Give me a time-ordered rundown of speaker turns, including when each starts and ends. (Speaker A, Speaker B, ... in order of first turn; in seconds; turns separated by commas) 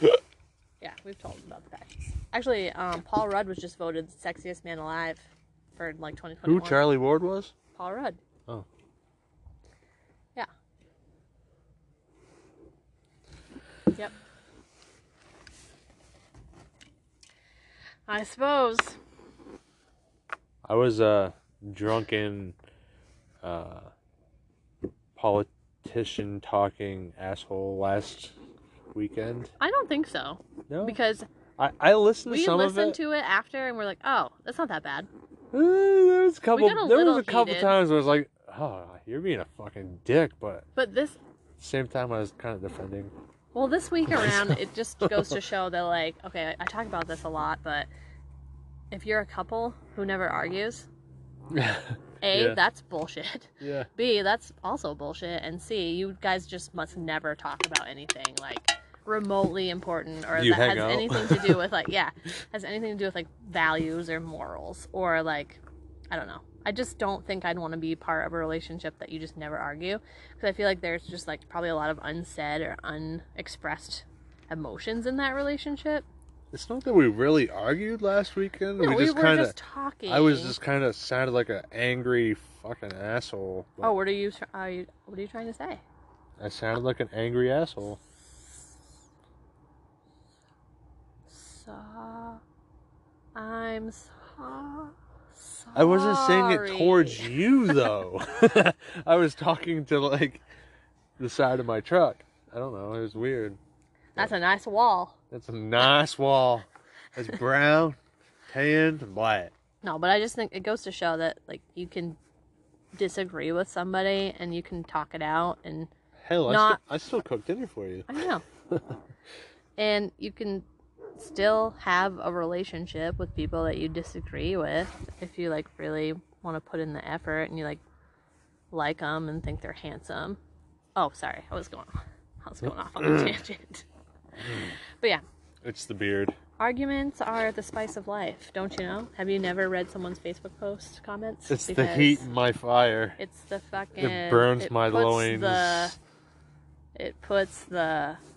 Speaker A: 0.8-7.0, Speaker B: 6.5-7.5, Speaker A: 7.7-8.2, Speaker A: 18.1-19.0, Speaker B: 20.6-22.6, Speaker B: 23.4-23.9, Speaker B: 25.2-28.4, Speaker B: 28.9-29.5, Speaker A: 29.6-31.3, Speaker B: 30.7-31.0, Speaker B: 31.6-33.0, Speaker A: 32.3-35.1, Speaker B: 35.5-40.7, Speaker A: 36.5-37.8, Speaker A: 40.8-41.2, Speaker B: 41.6-43.1, Speaker A: 43.5-47.9, Speaker B: 44.1-45.4, Speaker A: 48.9-50.9, Speaker B: 51.5-52.6, Speaker A: 52.2-76.0, Speaker B: 53.6-53.9, Speaker B: 60.3-61.6, Speaker B: 76.5-79.6, Speaker A: 78.8-80.6, Speaker B: 80.1-84.0, Speaker A: 83.8-85.8, Speaker B: 86.4-88.0, Speaker A: 91.3-92.4, Speaker A: 93.3-97.8, Speaker B: 95.8-100.4, Speaker B: 101.2-103.6, Speaker A: 104.2-105.2, Speaker B: 105.3-108.0, Speaker B: 108.5-109.5, Speaker A: 109.8-112.2, Speaker A: 113.0-115.9, Speaker B: 116.2-118.1, Speaker A: 116.5-116.8, Speaker A: 118.1-118.4, Speaker B: 118.7-119.0, Speaker A: 119.8-127.8, Speaker A: 128.7-130.4, Speaker A: 131.0-133.8, Speaker B: 134.4-134.7, Speaker B: 135.6-136.4, Speaker A: 136.6-142.3, Speaker B: 141.5-143.2, Speaker A: 143.2-145.9, Speaker B: 144.0-145.9, Speaker A: 146.9-148.2